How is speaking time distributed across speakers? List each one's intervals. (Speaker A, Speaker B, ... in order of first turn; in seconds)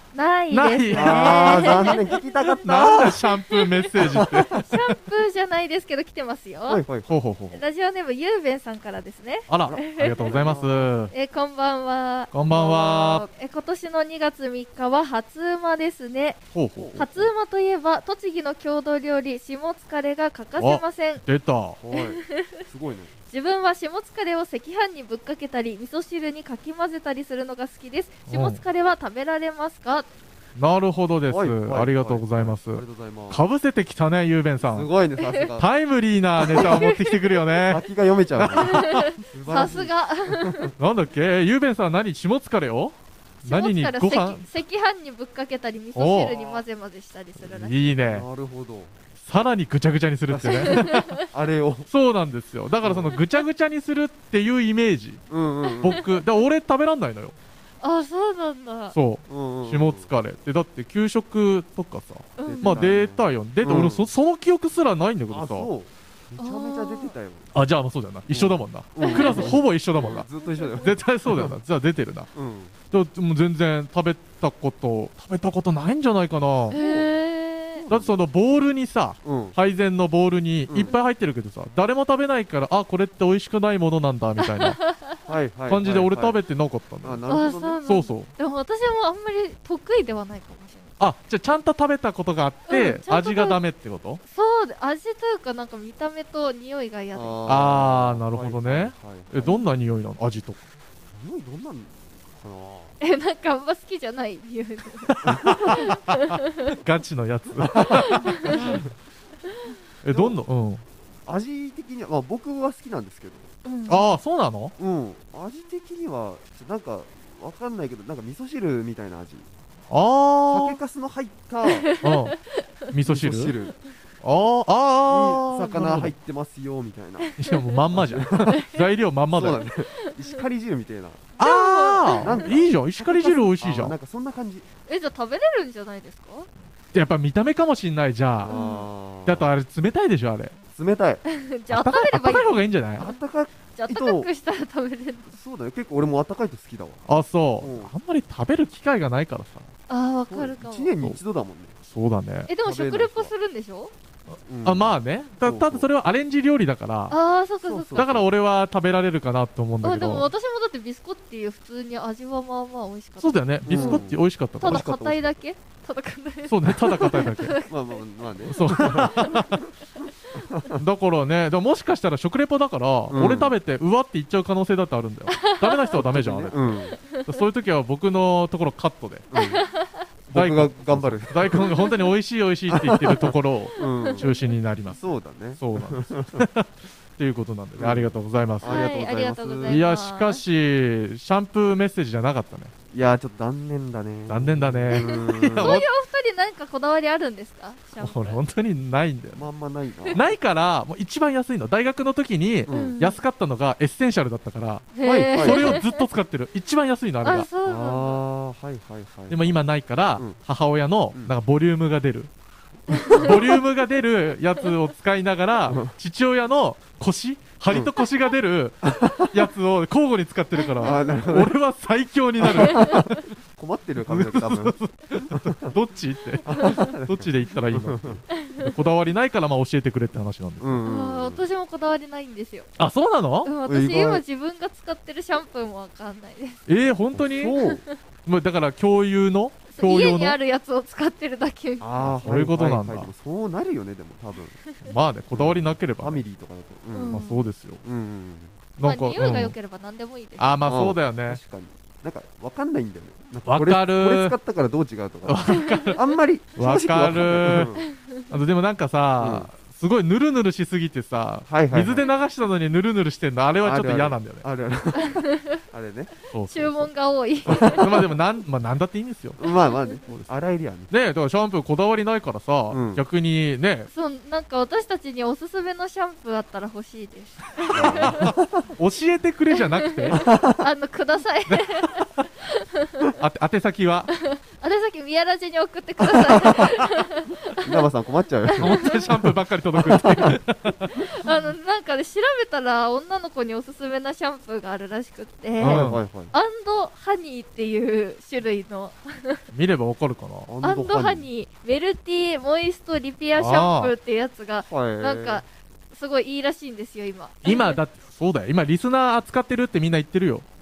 Speaker A: 0.1-2.1, 4.5-6.8, 7.5-10.3, 11.1-12.3, 13.3-21.2, 21.9-22.6, 23.3-30.1, 35.2-35.5, 36.5-37.4, 38.5-40.7, 43.4-47.8, 50.5-51.2, 55.7-56.0, 57.8-58.9, 62.4-62.9, 66.4-67.1, 69.0-69.5, 76.7-77.8, 84.4-85.2, 87.3-91.0, 92.7-93.6, 94.3-97.6, 103.0-106.7, 107.9-108.8, 113.6-114.0, 121.7-122.4, 127.2-127.8, 128.5-128.8, 131.4-132.5, 134.9-136.5, 138.5-138.9, 141.3-143.2, 143.7-145.3, 149.9-150.9, 152.5-153.9, 157.1-158.1, 159.8-164.1, 164.6-168.0, 168.8-169.4, 175.3-176.0, 176.9-177.3, 179.3-180.0, 183.8-184.4, 188.6-190.4, 194.9-198.4, 202.7-203.2, 204.9-206.0, 207.2-208.2, 222.7-222.9, 228.4-228.7, 230.8-232.7, 233.4-236.6, 237.5-237.9, 239.7-241.9, 246.9-247.4, 248.8-250.6, 257.8-258.2, 264.9-265.6, 266.5-267.9, 269.4-270.0, 273.9-278.3, 279.5-283.1, 284.1-287.8, 288.5-289.1, 290.9-299.4, 300.6-307.8
Speaker B: 0.5-4.8, 7.1-7.6, 9.5-11.1, 12.3-13.2, 16.5-17.0, 20.6-21.8, 28.3-28.6, 30.6-34.9, 35.6-37.8, 38.3-39.1, 40.8-44.4, 45.9-46.3, 47.4-48.2, 49.2-51.2, 51.9-55.2, 55.8-57.3, 58.9-65.7, 67.5-70.3, 70.8-72.3, 72.9-76.8, 77.9-84.8, 85.7-87.2, 87.8-88.3, 91.0-94.2, 97.5-100.6, 105.0-108.8, 110.0-110.8, 113.9-114.7, 119.9-120.8, 122.0-122.4, 122.9-123.5, 124.2-126.1, 127.4-129.7, 131.4-133.9, 136.9-138.6, 139.2-140.6, 141.7-143.1, 147.1-149.7, 151.8-152.5, 154.6-157.2, 157.9-160.3, 163.2-164.9, 166.4-167.6, 168.4-169.6, 170.7-176.6, 177.2-179.3, 180.3-185.0, 185.6-188.9, 189.7-192.7, 194.3-195.8, 198.0-199.5, 200.1-207.5, 209.3-212.3, 213.0-223.2, 224.0-230.9, 232.8-233.5, 236.7-237.6, 238.2-240.4, 242.0-243.1, 244.8-246.2, 247.1-247.8, 248.8-249.5, 250.4-251.4, 253.5-254.3, 255.2-256.0, 256.6-257.7, 258.3-264.4, 266.3-266.9, 267.4-269.4, 270.9-273.9, 277.7-280.2, 281.5-282.2, 283.2-284.1, 288.6-291.1, 295.6-296.0, 299.5-300.5, 303.4-303.9, 307.4-310.4
Speaker C: 0.9-3.2, 4.0-4.6, 6.7-7.1, 9.6-10.9, 12.5-13.3, 16.8-17.3, 21.8-23.1, 31.3-33.4, 34.6-35.7, 36.5-36.8, 37.7-40.7, 46.2-46.6, 48.0-48.9, 50.3-51.9, 52.8-53.1, 55.3-56.0, 59.3-60.1, 62.4-64.1, 65.3-67.5, 68.3-71.5, 72.3-72.7, 76.7-77.1, 77.8-78.2, 79.2-79.6, 80.7-80.9, 85.2-86.4, 87.0-87.8, 97.1-99.6, 101.1-102.9, 105.2-105.9, 107.6-108.9, 110.1-110.4, 111.2-113.5, 114.8-119.5, 120.5-121.9, 123.1-123.7, 125.1-127.3, 127.9-128.6, 129.3-131.3, 132.1-134.7, 138.4-139.5, 140.7-141.2, 143.0-144.3, 145.3-147.0, 147.6-147.9, 150.3-151.8, 152.6-153.3, 154.4-155.9, 157.6-158.3, 163.7-165.4, 167.6-169.7, 170.3-170.8, 173.1-173.5, 175.9-177.0, 179.3-179.6, 180.3-181.8, 182.7-184.3, 184.9-186.5, 187.8-189.8, 192.9-195.8, 199.3-200.2, 202.7-203.0, 205.0-205.8, 207.6-209.6, 212.9-213.3, 215.7-215.9, 218.8-219.3, 220.8-221.6, 222.4-225.7, 226.4-228.2, 230.6-231.4, 233.6-234.2, 237.1-237.8, 241.8-244.6, 245.3-247.2, 247.8-248.6, 250.7-257.9, 259.2-259.5, 261.5-262.1, 263.6-266.1, 267.5-268.0, 269.4-270.9, 272.7-273.0, 277.7-278.6, 280.1-280.6, 286.0-286.7, 287.6-289.0, 289.7-290.4, 295.6-296.3, 300.5-301.3, 304.6-305.4